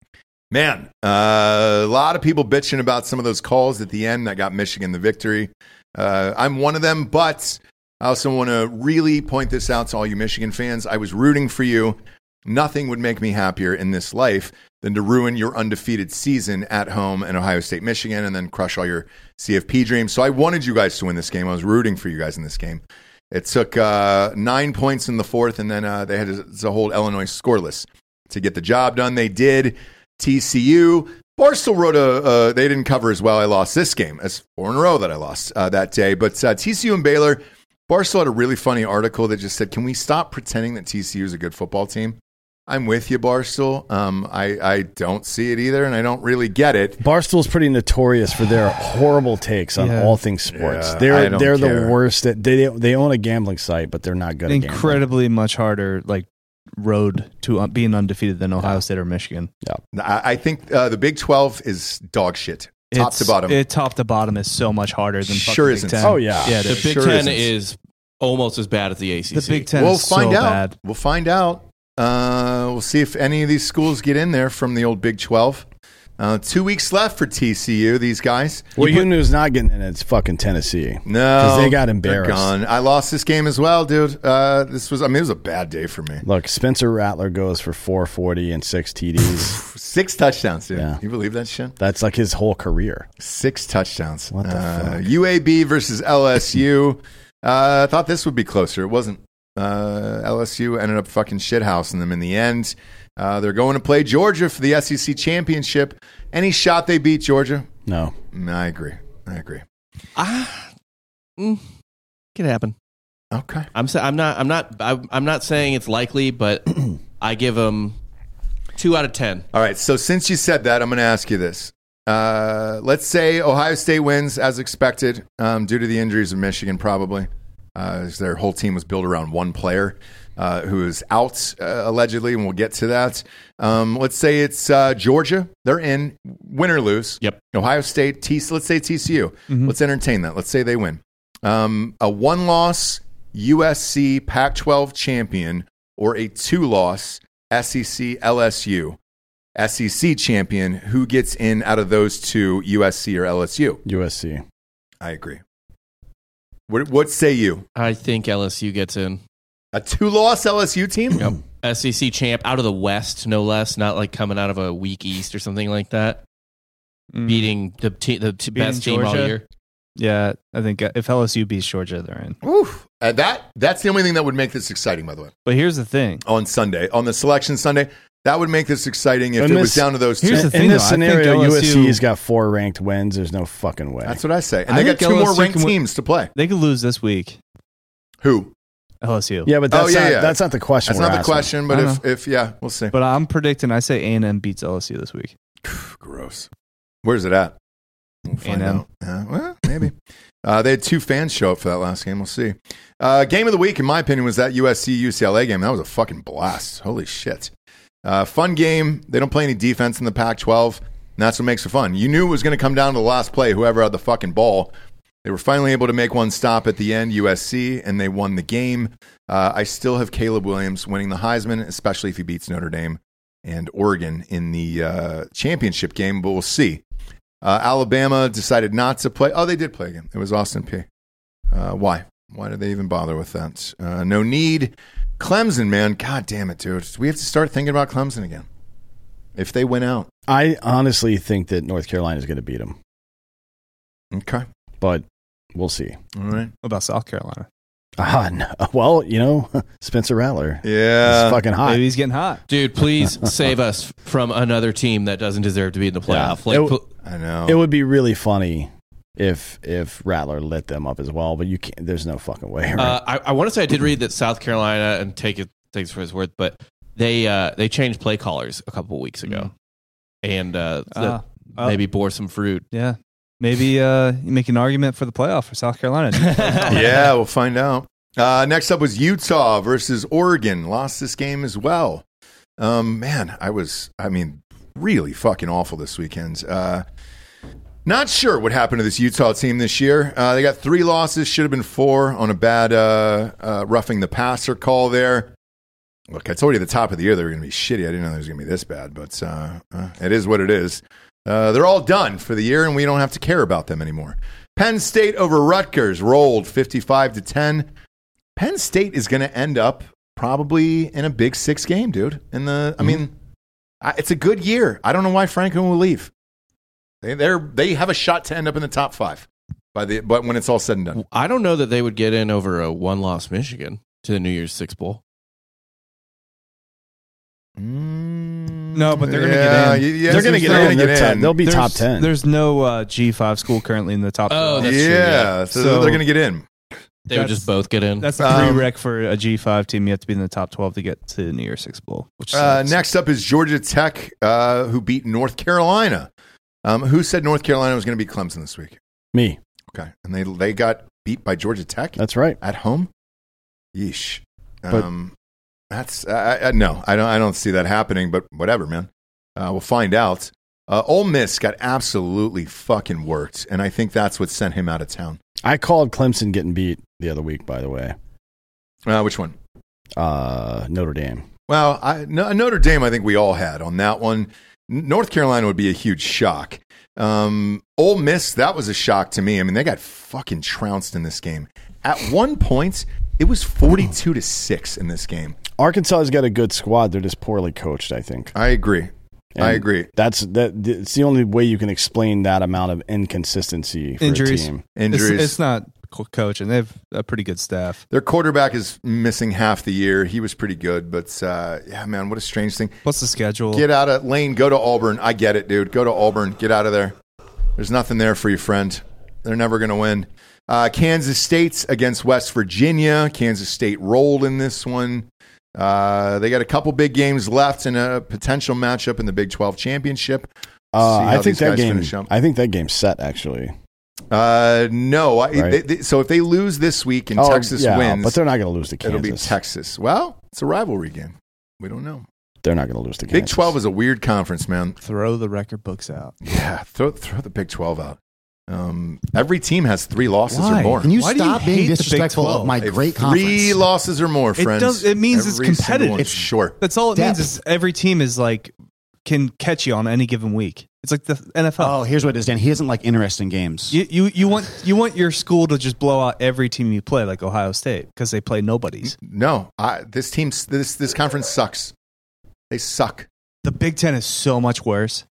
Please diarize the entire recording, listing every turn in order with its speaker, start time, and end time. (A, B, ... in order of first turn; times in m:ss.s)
0:00.5-0:47.0 A
0:47.0-0:55.0 B
0:49.8-0:50.2 C
0:50.5-0:52.0 A
0:54.5-0:59.5 C
0:59.9-1:03.6 A
1:02.9-1:07.2 C
1:05.3-1:07.5 A
1:06.0-1:06.6 B
1:06.6-1:09.7 D
1:09.3-1:10.7 C
1:09.7-1:15.7 A
1:16.2-1:18.8 A
1:18.8-1:22.5 B
1:18.8-1:19.0 C
1:21.0-1:26.2 A
1:26.2-1:29.6 B
1:29.4-1:31.7 A
1:30.7-1:31.0 B
1:31.8-1:33.1 B
1:33.2-1:47.7 A
1:34.3-1:35.0 B
1:47.8-1:48.1 B
1:48.3-1:49.6 A
1:50.2-1:50.7 D
1:51.4-1:51.6 D
1:52.3-1:52.7 D
1:53.3-1:53.7 A
1:53.7-1:58.0 D
1:58.8-1:59.4 D
1:59.5-2:29.0 A
2:29.6-2:33.8 A
2:33.8-2:34.4 B
2:35.0-2:35.4 A
2:36.7-2:37.6 A
2:37.7-2:39.2 D
2:39.7-2:41.3 A
2:41.2-2:46.2 D
2:47.1-2:47.5 C
2:47.2-2:49.4 D
2:48.5-2:49.4 C
2:50.0-2:52.4 C
2:52.4-2:55.3 A
2:55.4-2:56.2 C
2:56.2-3:00.5 A
2:59.4-3:04.2 B
3:00.2-3:02.0 C
3:04.0-3:06.3 A
3:04.7-3:05.8 C
3:06.3-3:07.4 C
3:08.2-3:08.5 A
3:09.0-3:09.5 C
3:09.4-3:11.5 B
3:09.7-3:12.9 A
3:11.7-3:12.0 C
3:12.9-3:15.3 C
3:15.6-3:16.5 A
3:17.0-3:17.6 A
3:18.2-3:27.5 A
3:18.4-3:18.8 C
3:28.0-3:34.7 A
3:35.2-3:46.8 A
3:47.4-3:50.8 A
3:51.5-3:58.4 A
3:59.4-4:00.1 A
4:00.3-4:02.8 B
4:04.1-4:04.4 A
4:04.8-4:06.0 B
4:06.1-4:06.5 A
4:06.6-4:07.5 C
4:08.0-4:11.8 B
4:10.6-4:11.4 A
4:11.6-4:12.4 C
4:12.5-4:16.8 D
4:16.1-4:16.8 B
4:17.0-4:17.6 A
4:17.4-4:23.0 B
4:22.8-4:29.5 D
4:30.2-4:32.6 D
4:30.9-4:31.8 C
4:32.7-4:36.9 C
4:36.2-4:37.0 D
4:36.7-4:42.0 A
4:42.6-4:46.8 A
4:47.8-4:55.3 A
4:56.1-5:07.7 A
5:08.4-5:13.1 A
5:13.8-5:16.1 A
5:17.0-5:21.0 A
5:21.0-5:25.0 D
5:27.6-5:31.4 A
5:28.7-5:30.9 C
5:30.1-5:32.1 B
5:31.4-5:36.0 C
5:34.3-5:35.3 D
5:34.6-5:36.4 A
5:37.1-5:38.6 D
5:37.1-5:37.5 C
5:38.0-5:42.8 C
5:38.2-5:38.7 A
5:42.3-5:46.1 A
5:46.6-5:48.8 A
5:49.1-5:49.4 B
5:49.7-5:52.9 A
5:52.0-5:52.4 B
5:53.7-5:55.1 A
5:55.7-6:05.2 A
6:05.4-6:08.0 B
6:08.8-6:09.4 A
6:10.0-6:11.2 B
6:11.5-6:25.4 A
6:25.6-6:28.3 B
6:28.3-6:29.9 A
6:29.4-6:34.6 B
6:34.0-6:37.8 C
6:34.7-6:35.4 A
6:37.9-6:42.8 A
6:42.8-6:43.6 C
6:43.5-6:47.0 A
6:47.6-7:02.1 A
7:00.7-7:03.5 B
7:04.1-7:08.2 A
7:05.3-7:05.6 B
7:07.2-7:09.3 B
7:08.8-7:12.0 A
7:12.4-7:13.5 B
7:13.1-7:14.8 A
7:14.8-7:16.1 C
7:16.2-7:18.0 A
7:18.5-7:20.9 A
7:20.3-7:22.5 C
7:20.8-7:23.6 E
7:22.6-7:26.6 A
7:24.4-7:26.1 C
7:26.0-7:26.3 E
7:26.6-7:28.5 C
7:26.9-7:27.3 E
7:29.0-7:31.8 C
7:31.6-7:33.8 E
7:33.7-7:38.9 C
7:38.8-7:41.7 A
7:42.5-7:43.1 A
7:43.4-7:45.0 C